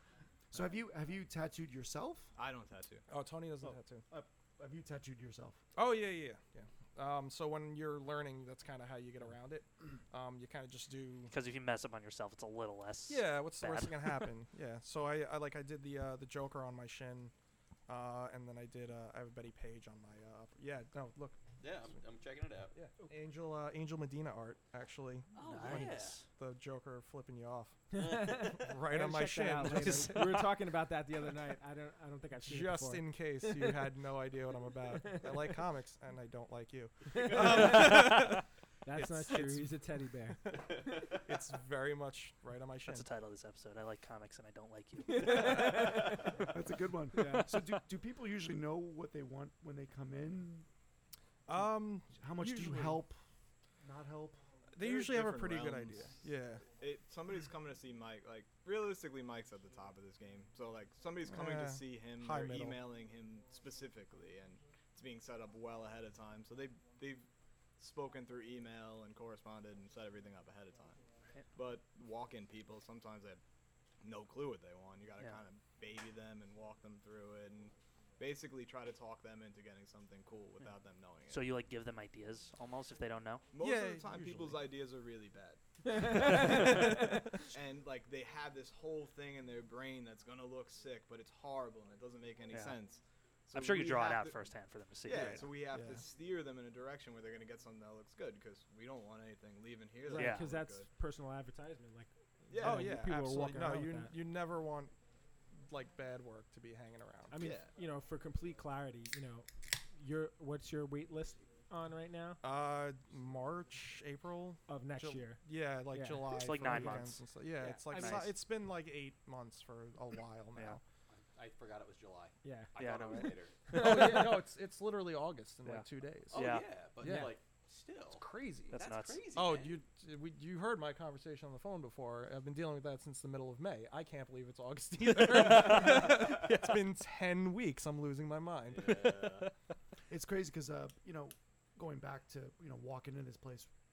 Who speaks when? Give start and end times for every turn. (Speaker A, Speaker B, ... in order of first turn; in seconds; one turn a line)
Speaker A: 0.5-2.3
Speaker B: 2.4-3.0
Speaker C: 3.1-4.0
Speaker A: 3.6-5.6
Speaker C: 5.7-11.3
Speaker D: 11.3-14.3
Speaker C: 13.1-17.3
Speaker C: 17.9-21.9
Speaker E: 21.6-22.7
Speaker C: 22.7-27.8
Speaker E: 25.3-26.2
Speaker D: 25.4-26.3
Speaker F: 27.9-33.9
Speaker E: 27.9-28.7
Speaker C: 28.5-30.5
Speaker C: 32.4-39.8
Speaker F: 35.0-35.6
Speaker F: 37.1-38.1
Speaker E: 37.1-37.8
Speaker F: 38.8-40.4
Speaker E: 40.9-41.2
Speaker C: 41.2-43.1
Speaker D: 42.9-46.4
Speaker F: 45.1-46.3
Speaker A: 46.4-50.6
Speaker F: 47.1-47.5
Speaker D: 47.2-47.7
Speaker C: 51.5-53.0
Speaker A: 51.5-53.2
Speaker A: 53.8-54.5
Speaker C: 54.7-56.7
Speaker B: 54.8-71.0
Speaker C: 61.3-62.8
Speaker B: 71.5-73.4
Speaker B: 74.0-81.5
Speaker D: 81.3-83.5
Speaker B: 83.5-86.8
Speaker C: 83.6-84.6
Speaker F: 85.9-87.0
Speaker C: 86.3-87.4
Speaker B: 87.5-94.4
Speaker D: 92.5-92.8
Speaker D: 93.5-95.5
Speaker B: 95.0-100.9
Speaker C: 95.1-95.4
Speaker F: 100.1-104.1
Speaker D: 100.1-100.5
Speaker B: 102.5-103.0
Speaker C: 102.6-104.9
Speaker C: 105.7-107.5
Speaker F: 107.3-112.4
Speaker B: 107.4-107.7
Speaker C: 112.4-120.8
Speaker F: 114.7-117.1
Speaker D: 116.3-117.3
Speaker D: 117.8-118.3
Speaker F: 117.9-118.2
Speaker E: 121.1-123.7
Speaker F: 122.4-122.7
Speaker D: 122.8-123.4
Speaker C: 123.7-126.5
Speaker F: 123.7-124.4
Speaker D: 125.6-126.8
Speaker E: 126.3-129.8
Speaker C: 127.0-127.3
Speaker F: 127.0-127.3
Speaker C: 128.1-139.5
Speaker D: 128.7-129.2
Speaker E: 138.7-139.5
Speaker A: 140.1-143.7